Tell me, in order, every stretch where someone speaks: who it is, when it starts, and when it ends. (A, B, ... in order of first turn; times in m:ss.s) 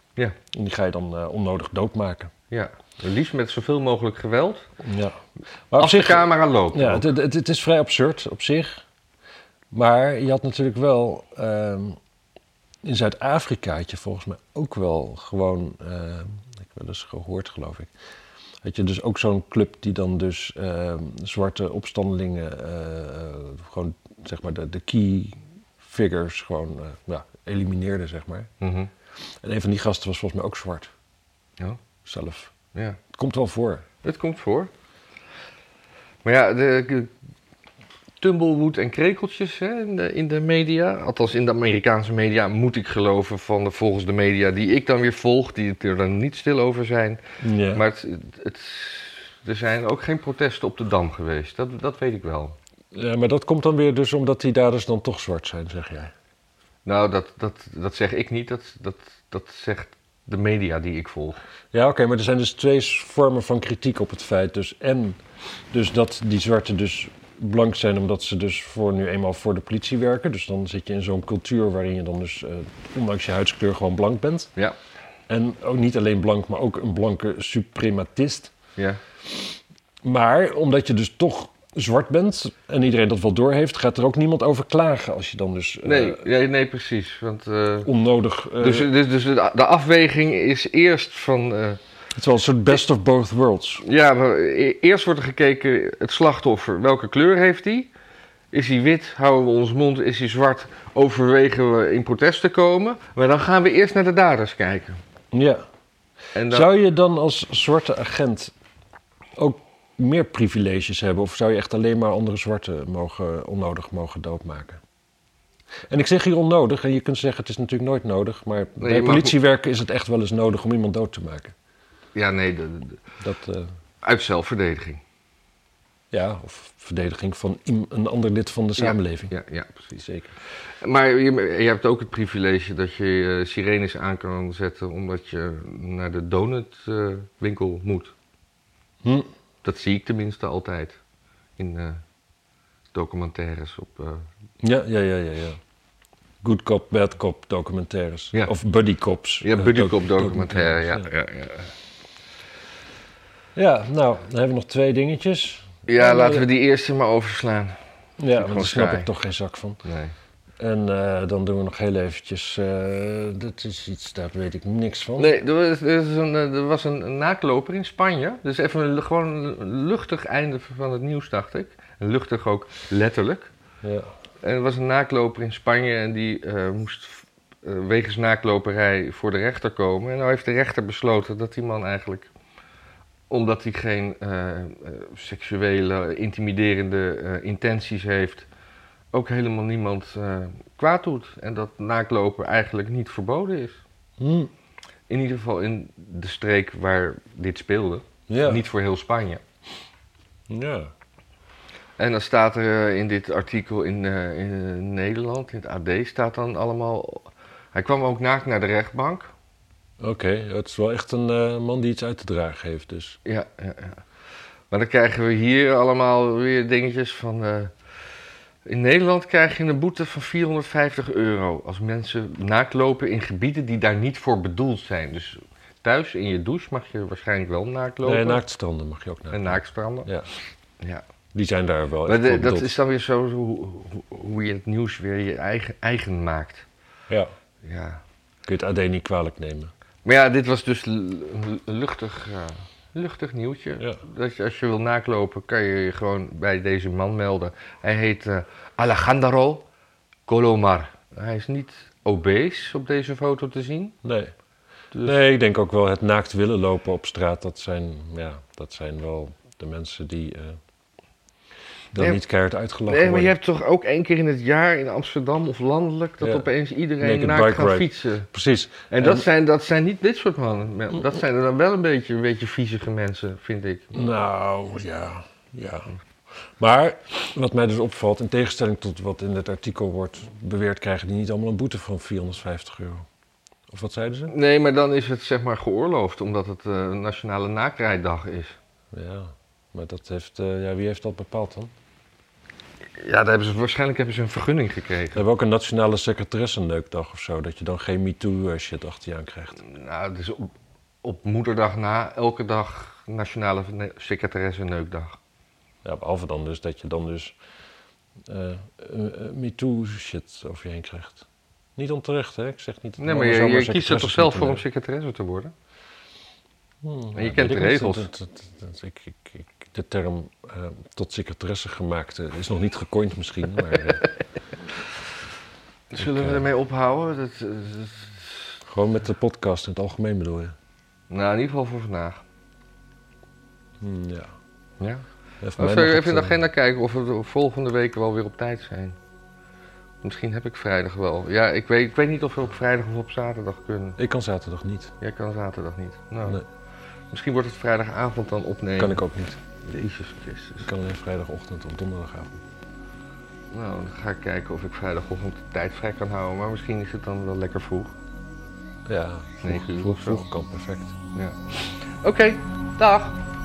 0:00.5-0:02.3 A
0:02.5-0:04.7 B
0:04.8-0:05.2 A
0:05.7-0:08.8 A
0:05.8-0:07.1 B
0:09.7-0:12.0 A
0:12.8-0:17.9 A
0:18.6-0:28.5 A
0:28.6-0:28.9 B
0:29.4-0:30.9 A
0:32.0-0:32.5 A
0:33.1-0:33.8 A
0:34.0-0:34.7 B
0:36.2-0:37.1 B
0:38.2-0:47.2 B
0:47.4-0:47.8 A
0:47.7-0:52.6 B
0:52.9-0:56.1 A
0:56.9-1:01.4 B
1:01.7-1:05.2 A
1:05.7-1:14.5 A
1:15.3-1:18.5 A
1:19.3-1:26.2 A
1:25.8-1:27.9 B
1:27.8-1:28.9 A
1:28.6-1:31.8 B
1:32.2-1:33.8 A
1:33.8-1:37.9 B
1:38.5-1:45.0 B
1:45.3-1:45.6 A
1:46.4-1:46.7 B
1:46.5-1:48.5 A
1:49.4-1:54.8 A
1:55.9-2:01.5 A
1:58.8-1:59.4 B
2:02.2-2:03.0 B
2:03.2-2:03.7 A
2:04.0-2:05.0 B
2:06.1-2:09.3 A
2:08.8-2:10.0 B
2:09.9-2:10.4 A
2:10.7-2:18.1 B
2:19.0-2:19.3 A
2:19.6-2:21.0 B
2:21.6-2:22.0 B
2:22.9-2:24.2 B
2:24.6-2:25.6 A
2:26.4-2:31.1 A
2:29.4-2:31.7 B
2:33.6-2:36.5 A
2:35.9-2:37.8 B
2:38.2-2:39.8 A
2:38.3-2:39.1 B
2:39.8-2:40.2 B
2:40.6-2:45.3 A
2:45.2-2:53.5 B
2:53.8-2:54.1 A
2:54.4-3:02.3 B
3:03.3-3:08.5 B
3:09.1-3:13.8 B
3:14.2-3:14.5 A
3:15.1-3:19.4 B
3:18.3-3:18.6 A
3:20.5-3:20.9 A
3:22.0-3:29.3 B
3:30.0-3:33.2 A
3:33.2-3:34.0 B
3:34.7-3:37.7 B
3:38.7-3:48.4 B
3:48.0-3:50.3 A
3:49.3-3:50.1 B
3:51.3-3:52.7 A
3:52.1-3:56.7 B
3:57.6-3:58.0 B
3:58.5-3:59.7 A
4:00.0-4:09.7 B
4:10.3-4:14.0 B
4:14.0-4:14.3 A
4:14.9-4:15.2 B
4:15.0-4:20.6 A
4:21.9-4:23.4 A
4:22.0-4:22.2 B
4:22.9-4:28.3 B
4:26.2-4:26.5 A
4:27.0-4:29.3 A
4:28.9-4:33.9 B
4:33.9-4:35.9 A
4:36.6-4:43.1 A
4:43.7-4:44.3 A
4:44.3-4:48.6 B
4:48.9-4:51.7 A
4:53.0-4:55.2 B
4:55.1-4:59.6 A
4:59.6-5:00.5 B
5:01.0-5:05.2 B
5:05.8-5:07.4 A
5:08.3-5:14.6 A
5:13.0-5:15.5 B
5:16.8-5:24.1 A
5:17.2-5:18.1 B
5:25.9-5:28.6 B
5:26.0-5:26.4 A
5:28.6-5:30.6 A
5:31.1-5:32.2 B
5:33.8-5:34.3 A
5:34.8-5:35.0 B
5:35.4-5:36.4 A
5:35.6-5:39.0 B
5:40.0-5:44.0 B
5:44.0-5:44.9 A
5:45.0-5:46.4 B
5:47.1-5:49.0 B
5:48.8-5:49.4 A
5:49.6-5:50.7 B
5:50.6-5:52.4 A
5:53.5-5:57.9 B
5:58.9-6:01.0 A
5:59.4-6:00.2 B
6:01.2-6:03.2 B